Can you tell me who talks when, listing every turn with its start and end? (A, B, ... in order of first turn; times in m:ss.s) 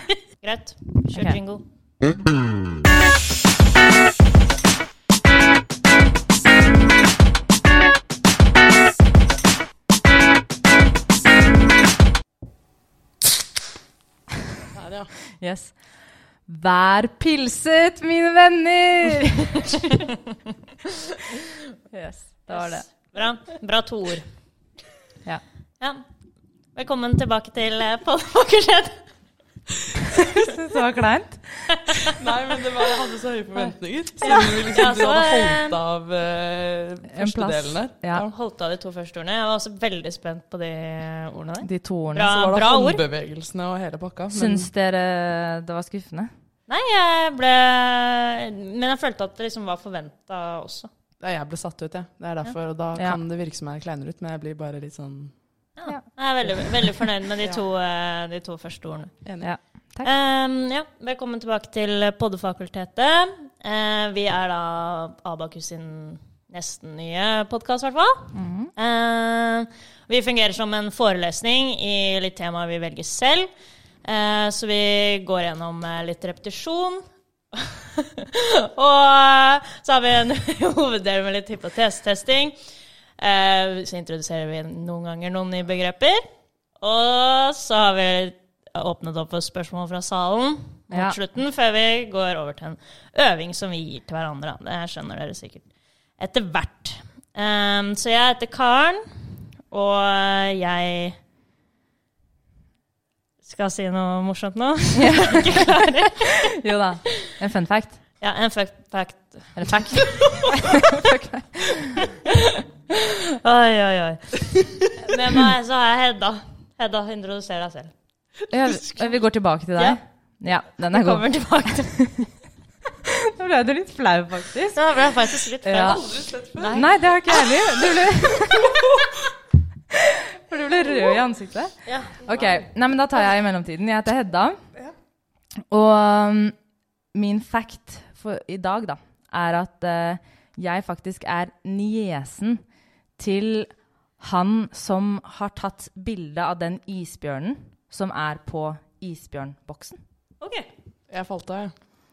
0:00.4-0:01.6 A
0:14.7-0:15.1 B
0:15.4-0:15.8 C
0:16.4-0:19.9 C
0:21.9-0:22.8 C
0:22.5-0:24.3 A
0:26.7-0:29.0 A
0:30.2-0:31.8 C
0:31.9-0:32.2 A
0:32.1-0:38.3 B
0:34.2-0:35.8 A
0:37.1-0:38.2 C
0:38.2-0:43.0 A
0:41.6-0:42.3 C
0:42.3-0:44.7 B
0:44.3-0:46.3 C
0:46.7-0:50.9 A
0:51.2-0:55.3 B
0:55.8-0:59.1 A
0:59.2-0:59.5 B
0:59.4-1:00.1 C
1:00.0-1:13.5 A
1:08.3-1:08.7 C
1:14.0-1:22.6 A
1:23.2-1:26.2 A
1:26.8-1:35.6 A
1:30.9-1:31.2 C
1:36.2-1:39.0 A
1:39.7-1:41.2 A
1:43.4-1:46.5 A
1:44.9-1:45.6 C
1:46.2-1:48.0 C
1:48.2-1:50.8 A
1:49.6-1:52.0 C
1:52.2-1:57.9 A
1:58.5-2:02.3 C
2:00.8-2:02.0 A
2:03.0-2:04.8 C
2:04.7-2:08.1 A
2:05.6-2:06.0 C
2:05.7-2:06.8 B
2:06.7-2:08.9 C
2:09.9-2:14.6 C
2:11.8-2:12.3 A
2:15.7-2:16.6 C
2:17.1-2:22.6 C
2:23.2-2:30.0 C
2:30.4-2:30.7 A
2:31.1-2:31.7 B